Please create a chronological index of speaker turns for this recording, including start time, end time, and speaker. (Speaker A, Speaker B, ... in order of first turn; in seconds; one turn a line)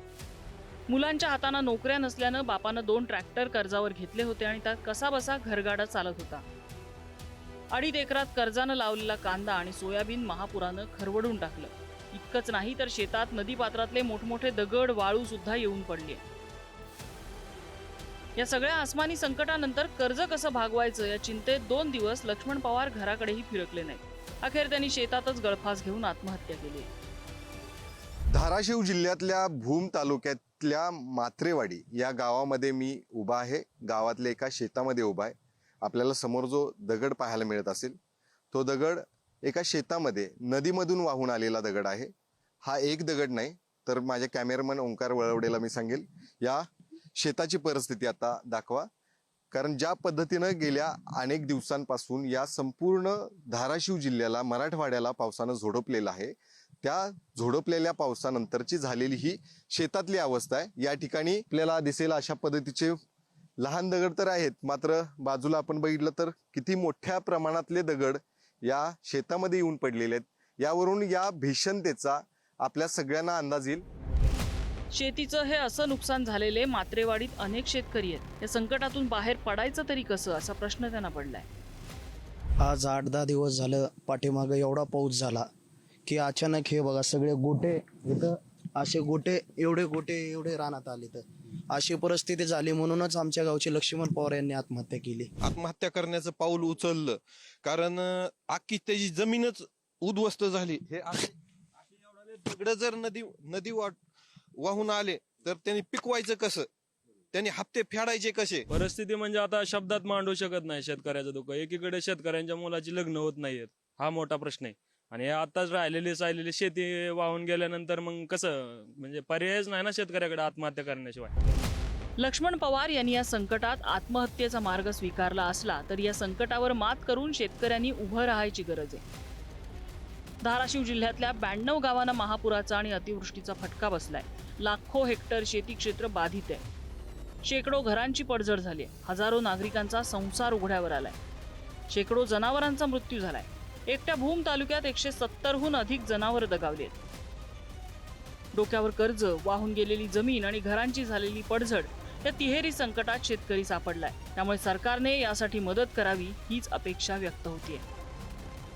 Speaker A: 0.9-6.4
Speaker A: 7.7-16.2
Speaker A: 18.4-26.9
Speaker B: 28.3-38.0
Speaker B: 38.5-42.1
Speaker B: 42.6-46.6
Speaker B: 47.1-48.9
Speaker B: 49.5-63.0
Speaker B: 63.6-73.8
Speaker A: 74.9-81.5
Speaker C: 82.6-85.5
Speaker C: 86.0-95.3
Speaker D: 95.4-101.3
Speaker D: 102.2-104.0
Speaker D: 104.6-106.7
Speaker D: 107.3-108.6
Speaker E: 108.7-121.3
Speaker A: 122.2-129.0
Speaker A: 130.4-136.6
Speaker A: 137.4-141.2
Speaker A: 141.9-147.0
Speaker A: 148.5-157.8